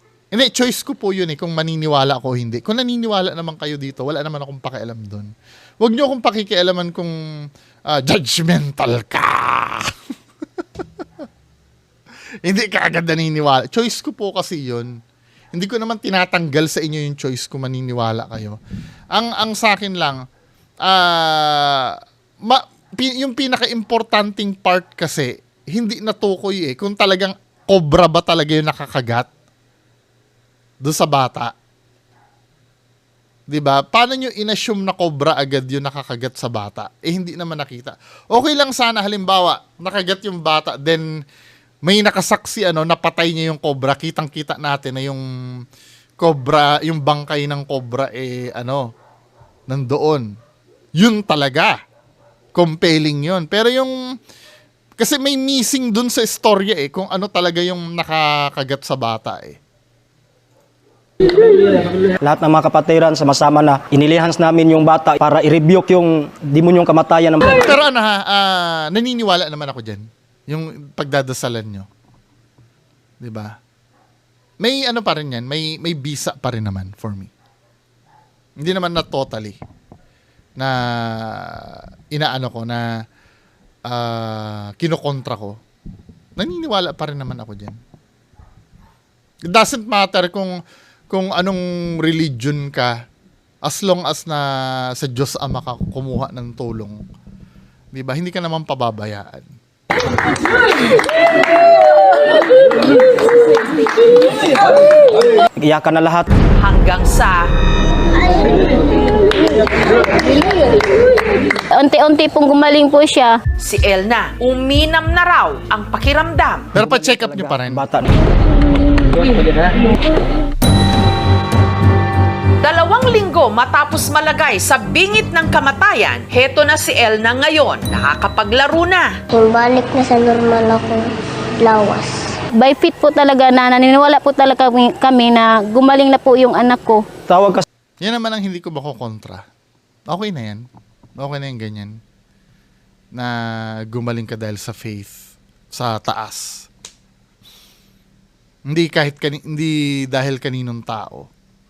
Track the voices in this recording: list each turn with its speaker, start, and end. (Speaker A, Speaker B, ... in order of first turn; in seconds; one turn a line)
Speaker A: 0.3-5.3
Speaker A: 5.8-7.1
Speaker A: 7.9-9.9
Speaker A: 12.4-14.9
Speaker A: 15.5-18.6
Speaker A: 19.1-20.2
Speaker A: 20.8-29.3
Speaker A: 30.8-31.5
Speaker A: 33.5-41.0
Speaker A: 41.9-45.2
Speaker A: 46.2-48.8
Speaker A: 49.7-50.3
Speaker A: 51.0-51.8
Speaker A: 52.5-53.9
Speaker A: 55.0-59.6
Speaker B: 62.2-67.7
Speaker A: 67.5-71.9
Speaker A: 73.2-73.5
Speaker A: 74.6-77.3
Speaker A: 78.6-79.6
Speaker A: 80.6-82.9
Speaker A: 83.9-85.6
Speaker A: 86.4-87.8
Speaker A: 89.5-90.6
Speaker A: 91.1-92.9
Speaker A: 93.6-97.0
Speaker A: 97.9-99.5
Speaker B: 105.6-106.3
Speaker C: 106.6-107.5
Speaker D: 111.8-113.4
Speaker C: 113.6-116.7
Speaker A: 116.7-117.8
Speaker B: 116.8-118.1
Speaker C: 122.6-129.2
Speaker E: 129.3-131.1
Speaker E: 131.6-132.2
Speaker D: 132.6-137.0
Speaker B: 137.3-137.6
Speaker A: 138.0-139.4
Speaker A: 140.1-140.6
Speaker A: 141.2-142.0
Speaker A: 143.1-145.1
Speaker A: 145.7-146.7
Speaker A: 148.7-151.3